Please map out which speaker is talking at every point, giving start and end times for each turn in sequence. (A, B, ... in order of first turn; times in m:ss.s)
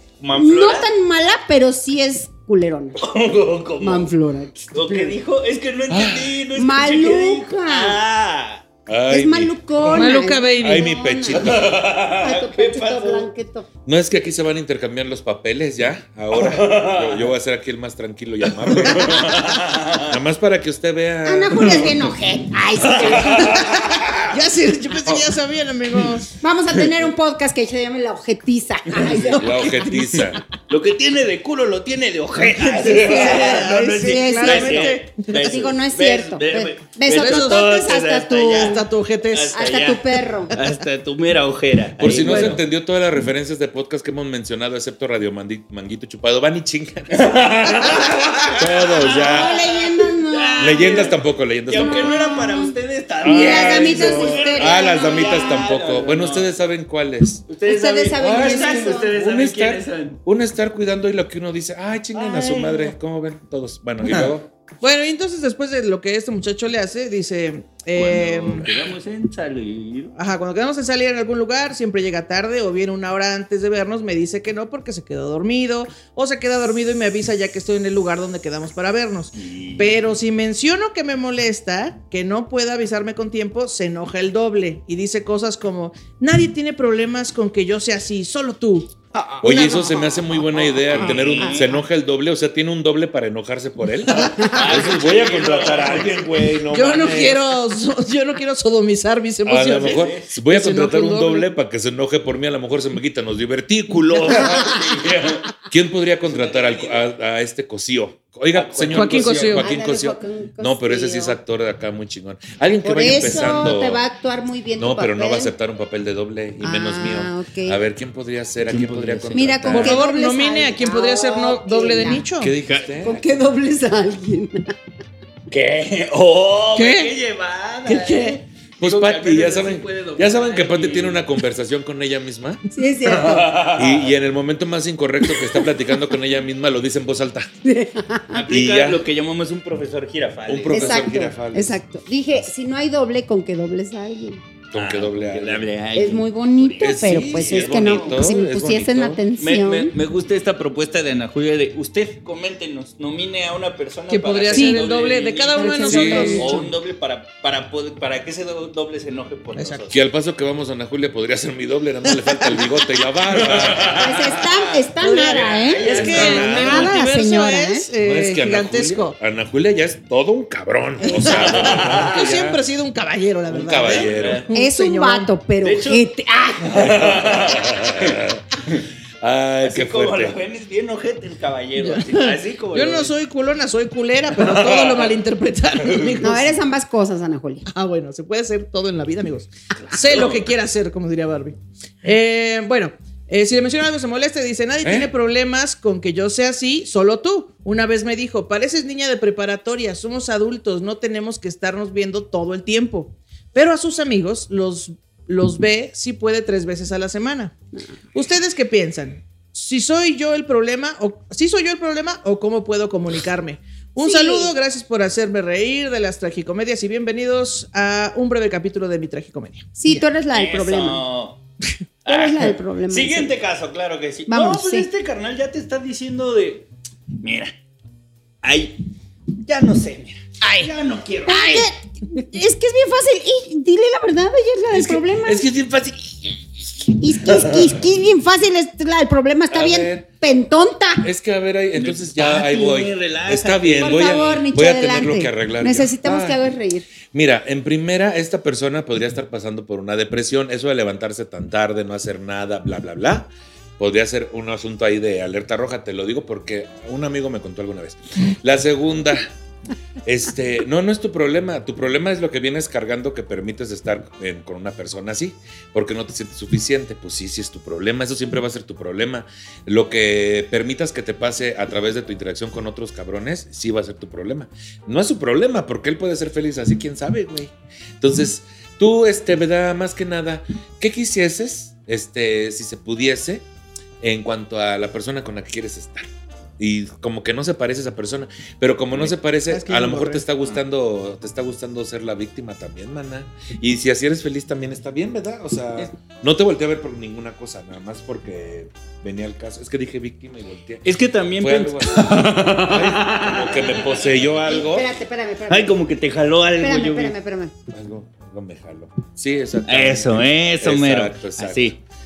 0:00.2-0:00.9 A
0:00.3-0:03.0 B
0:03.0-0:04.1 A
0:03.8-0:05.2 B
0:04.7-0:08.6 A
0:05.9-0:06.4 C
0:06.5-0:08.0 B
0:08.9-0:11.8 C
0:09.1-0:13.7 B
0:09.9-0:10.9 D
0:11.3-0:13.3 A
0:13.8-0:22.1 C
0:16.3-0:17.3 A
0:18.6-0:20.2 A
0:21.2-0:23.6 B
0:22.9-0:24.3 A
0:23.4-0:23.7 D
0:24.3-0:26.3 D
0:26.4-0:30.0 B
0:28.9-0:29.4 A
0:29.3-0:30.4 C
0:30.7-0:42.6 A
0:32.5-0:35.5 D
0:32.8-0:38.8 B
0:37.1-0:37.7 D
0:38.5-0:39.5 D
0:39.5-0:40.6 B
0:42.0-0:49.6 C
0:42.2-0:42.6 D
0:47.1-0:56.6 A
0:49.1-0:51.1 B
0:50.6-0:52.2 C
0:51.7-0:55.6 B
0:53.2-0:57.4 C
0:57.5-1:00.2 A
0:57.6-0:59.1 B
0:58.2-1:04.5 C
1:02.1-1:02.9 A
1:04.8-1:08.7 D
1:07.9-1:10.1 A
1:10.1-1:30.0 D
1:19.3-1:20.0 A
1:29.4-1:37.4 C
1:29.5-1:29.9 B
1:30.8-1:31.7 A
1:30.9-1:31.8 B
1:34.1-1:34.5 D
1:34.3-1:36.3 A
1:36.7-1:41.5 D
1:39.4-1:44.7 C
1:39.7-1:40.3 A
1:44.2-1:45.5 A
1:45.7-1:54.0 C
1:46.2-1:47.1 A
1:48.5-1:49.6 A
1:48.9-1:49.7 D
1:49.5-1:51.4 B
1:52.8-1:55.5 B
1:54.8-2:00.0 C
1:56.6-1:57.8 B
1:58.6-1:59.7 A
1:59.3-2:02.2 B
1:59.7-2:02.5 D
2:02.4-2:03.2 C
2:02.6-2:02.9 A
2:03.0-2:04.7 B
2:05.5-2:11.3 A
2:06.8-2:07.1 D
2:07.8-2:08.4 D
2:08.8-2:12.6 C
2:12.7-2:13.6 B
2:13.0-2:14.1 A
2:13.7-2:17.5 C
2:17.6-2:18.4 B
2:18.3-2:21.1 A
2:18.5-2:19.0 C
2:20.5-2:21.8 C
2:20.7-2:24.4 B
2:24.7-2:25.7 C
2:24.7-2:28.3 A
2:26.0-2:29.9 B
2:26.8-2:29.2 C
2:29.4-2:40.0 A
2:34.1-2:36.7 D
2:34.5-2:34.8 B
2:35.5-2:36.6 B
2:35.9-2:36.4 C
2:39.5-2:39.8 D
2:39.9-2:44.2 C
2:43.3-2:46.6 A
2:43.8-2:47.9 B
2:45.0-2:49.2 D
2:45.9-2:46.9 C
2:48.0-2:52.6 C
2:51.0-2:51.5 B
2:51.2-2:52.2 A
2:51.4-2:55.3 D
2:53.5-2:54.4 C
2:53.8-2:54.5 A
2:54.5-2:57.0 B
2:55.6-2:56.0 A
2:56.6-2:58.8 A
2:56.8-2:58.4 C
2:59.2-3:00.4 C
2:59.6-3:03.1 A
3:01.8-3:06.5 D
3:04.4-3:05.1 A
3:06.2-3:07.6 B
3:07.7-3:27.5 D
3:09.8-3:10.5 A
3:14.8-3:15.1 C
3:28.1-3:40.0 D
3:34.0-3:34.5 B
3:39.8-3:41.0 B
3:40.3-3:41.4 A
3:42.0-3:46.7 A
3:42.1-3:43.3 B
3:44.3-3:44.9 B
3:47.2-3:47.5 A
3:48.4-3:48.8 A
3:49.4-3:51.7 A
3:51.3-3:55.4 B
3:54.7-3:56.4 C
3:57.0-4:01.0 B
3:59.5-4:00.1 C
4:01.0-4:06.4 C
4:01.8-4:04.4 A
4:03.8-4:06.8 B
4:07.1-4:19.3 C
4:20.0-4:43.4 C
4:44.0-4:46.1 C
4:46.6-5:04.9 C
4:49.5-4:50.2 D
5:00.8-5:04.0 A
5:04.4-5:05.8 B
5:05.5-5:07.2 A
5:06.6-5:07.5 B
5:07.7-5:11.8 C
5:09.7-5:11.8 A